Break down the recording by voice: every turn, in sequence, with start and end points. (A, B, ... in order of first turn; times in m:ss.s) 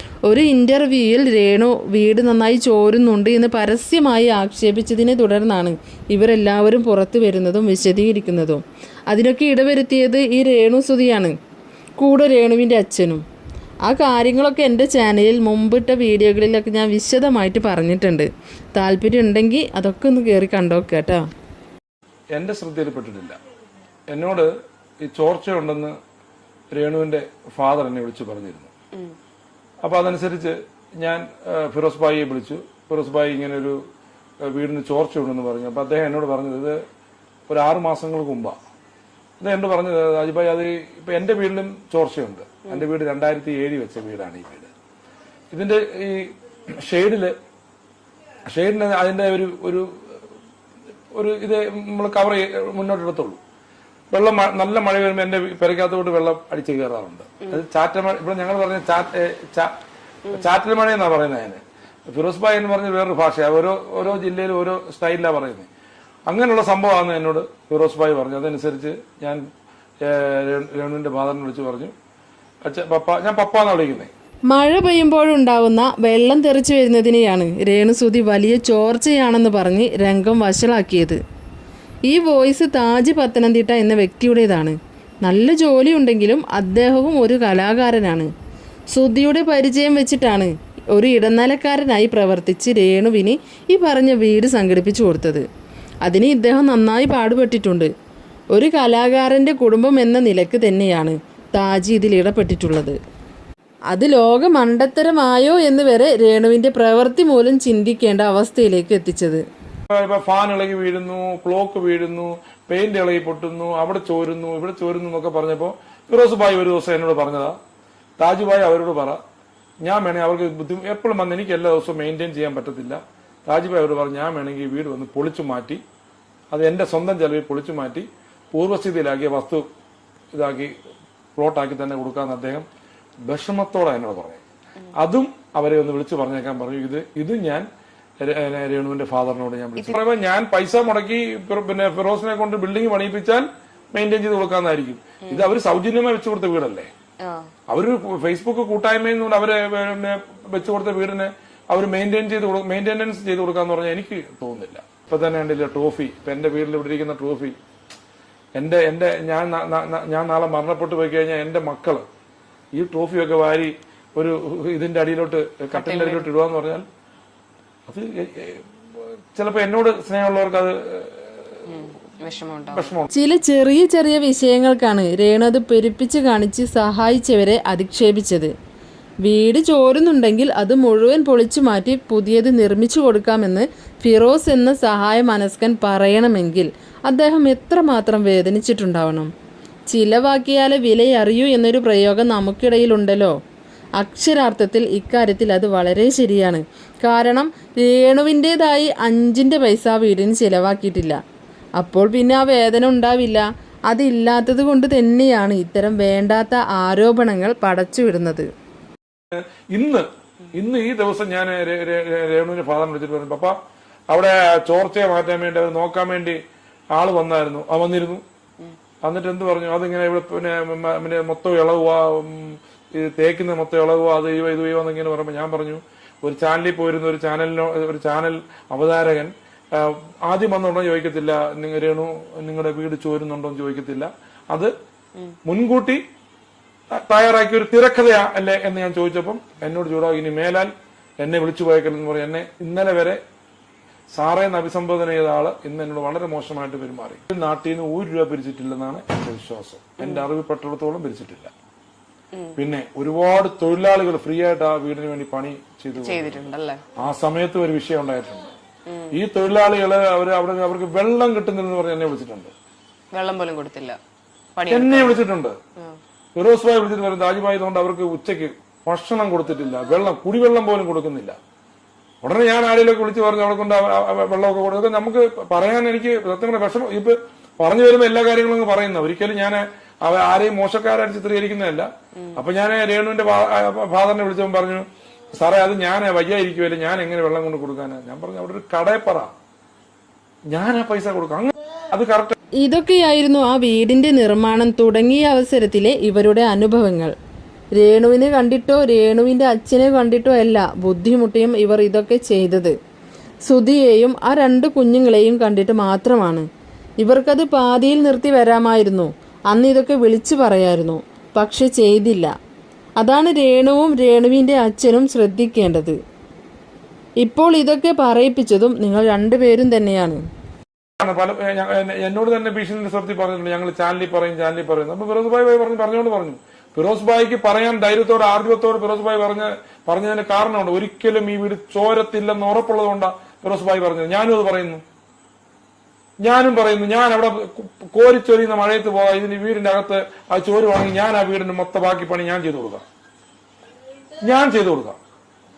0:00.2-0:11.4 A
0:12.0-0:13.2 A
0:13.8-0:21.2 A
0:22.3-0:23.4 B
0:24.1-0:24.5 B
0:25.0-0:26.0 B
0:26.7-0:28.7 B
0:29.8-0:33.8 B
0:34.4-0:36.8 B
0:37.5-0:38.6 B
0:39.4-0:44.7 B
0:45.5-0:47.3 B
0:48.5-0:50.2 B
0:51.1-0:53.4 B
0:54.1-0:59.7 B
1:00.3-1:05.7 B
1:06.3-1:09.4 B
1:10.0-1:11.9 B
1:12.7-1:14.1 B
1:14.5-1:21.2 A
1:22.1-1:28.3 A
1:28.9-1:35.4 A
1:36.0-1:37.9 A
1:38.5-1:43.0 A
1:43.9-1:49.4 A
1:49.9-1:57.6 B
1:58.2-1:59.2 B
1:59.8-2:05.8 B
2:06.5-2:09.7 B
2:10.3-2:10.7 B
2:11.4-2:12.7 B
2:13.2-2:14.4 B
2:15.0-2:17.6 B
2:18.2-2:26.9 B
2:27.2-2:27.5 C
2:27.7-2:37.6 B
2:38.6-2:42.0 B
2:42.8-2:46.8 B
2:45.7-2:46.3 C
2:47.9-2:48.6 B
2:49.3-2:51.3 B
2:51.7-2:52.9 C
2:52.7-2:53.1 B
2:53.1-2:58.5 A
2:59.2-3:09.3 A
3:09.9-3:13.4 A
3:14.0-3:21.2 A
3:21.8-3:28.5 A
3:29.4-3:33.6 B
3:34.1-3:36.4 B
3:36.9-3:38.2 B
3:39.0-3:54.7 B
3:55.5-3:56.0 B
3:56.9-4:03.2 B
4:04.1-4:11.5 B
4:10.0-4:10.3 C
4:12.6-4:16.5 B
4:16.0-4:16.8 C
4:17.0-4:18.5 B
4:18.9-4:19.2 C
4:19.1-4:22.5 B
4:23.1-4:24.0 C
4:24.6-4:25.2 C
4:24.7-4:25.6 B
4:26.4-4:31.4 B
4:32.2-4:44.8 B
4:45.4-4:49.3 B
4:50.5-4:52.4 B
4:52.6-4:57.1 A
4:57.8-5:02.7 A
5:03.5-5:06.4 A
5:07.0-5:12.3 A
5:13.0-5:16.0 A
5:17.2-5:20.2 A
5:21.0-5:34.8 B
5:36.2-5:42.8 B
5:44.2-5:45.0 B